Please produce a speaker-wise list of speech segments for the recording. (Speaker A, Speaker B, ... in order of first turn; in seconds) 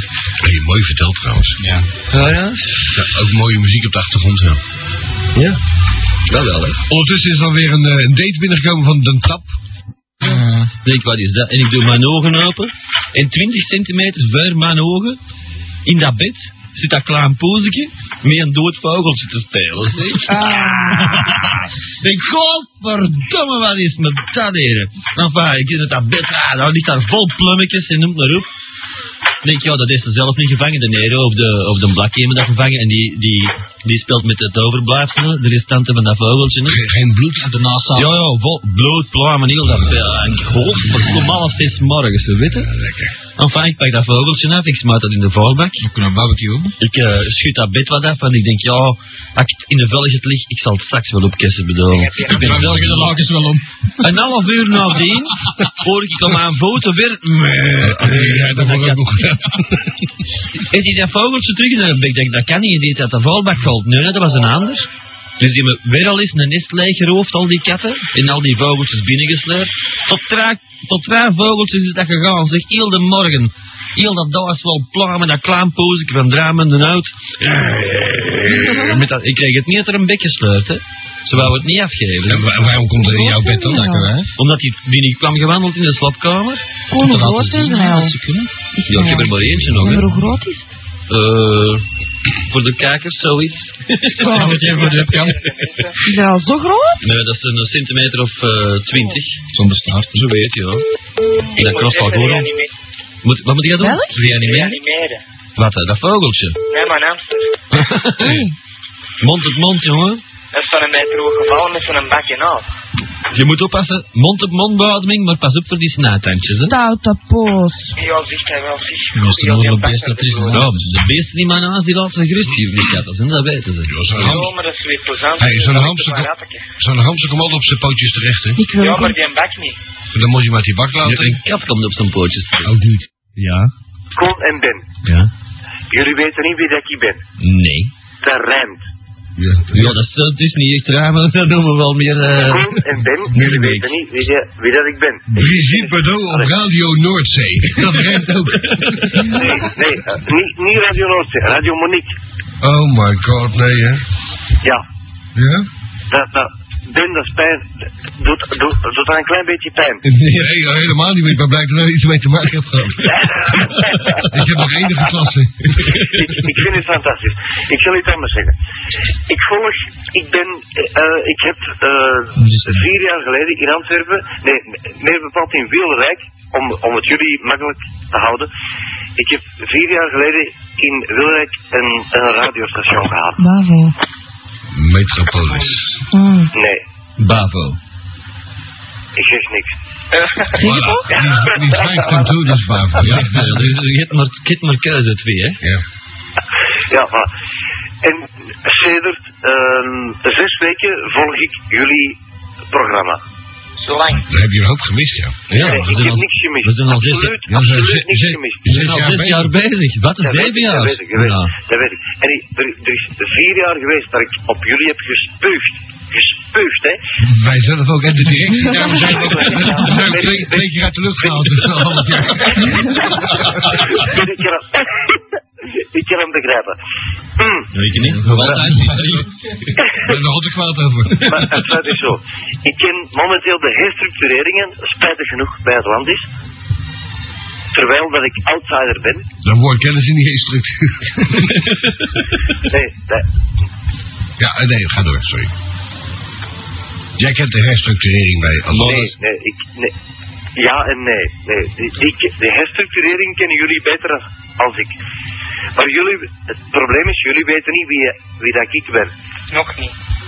Speaker A: 0.4-1.6, 2.9-4.6, 6.9-9.5, 36.6-37.6, 42.6-43.1, 57.8-59.9, 82.3-84.3, 89.5-89.8, 123.9-124.5, 125.4-128.6, 130.1-131.4, 132.6-133.1, 139.4-140.0, 145.3-149.5, 152.6-154.0, 155.3-155.7, 160.0-166.0, 184.7-185.9, 190.6-193.6, 204.2-205.9, 207.5-209.5, 217.2-223.5, 228.2-228.7, 230.0-231.6, 239.4-241.5, 244.4-245.5, 247.2-249.1
Speaker B: 1.6-1.9, 10.2-10.7, 37.5-38.1, 45.8-46.7, 52.3-53.6, 87.0-88.5, 94.3-95.3, 99.5-100.2, 119.1-120.9, 172.4-172.9, 228.2-229.1
Speaker C: 2.1-2.9, 5.3-5.6, 6.3-6.8, 10.8-15.2, 15.8-28.5, 29.4-36.8, 38.0-42.7, 43.4-45.9, 46.8-53.2, 54.0-59.0, 60.7-64.9, 65.4-82.6, 84.4-86.7, 88.9-90.1, 91.1-91.8, 92.5-95.5, 97.0-99.4, 100.1-100.8, 101.6-102.5, 103.2-104.8, 105.6-106.6, 107.7-108.5, 109.2-110.2, 113.3-116.8, 120.5-124.5, 131.0-132.8, 133.4-133.7, 135.0-135.3, 137.4-137.9, 139.7-142.8, 143.3-143.9, 149.0-149.3, 187.2-187.8, 193.0-195.6, 205.5-208.0, 208.6-211.5, 227.7-229.3, 248.7-249.0
Speaker D: 20.3-21.2, 83.0-84.1, 86.9-88.2, 88.7-90.7, 94.2-94.7, 96.0-97.1, 103.8-104.3, 108.2-108.5, 116.7-117.9, 128.6-129.2, 183.4-183.9, 186.1-186.5, 190.6-191.1
Speaker E: 51.9-52.4, 94.4-96.0, 101.5-102.7, 104.3-105.2, 106.7-107.5, 110.5-112.6, 118.0-120.7, 124.2-126.6, 128.8-129.8, 191.7-192.3, 203.8-204.2, 259.5-259.9
Speaker F: 134.2-134.9, 135.9-137.2, 138.2-138.8, 142.3-146.5, 149.3-152.1, 156.1-160.0, 165.9-168.5, 169.3-178.5, 179.2-183.4, 186.5-186.8, 189.2-189.7, 196.9-197.3, 198.0-202.2, 202.7-203.2, 205.5-208.7, 210.2-217.0, 218.9-220.6, 223.9-224.9, 225.9-226.8, 227.4-227.7, 231.2-236.3, 237.7-239.2, 242.7-243.3, 248.7-249.9, 250.6-255.0, 255.8-259.1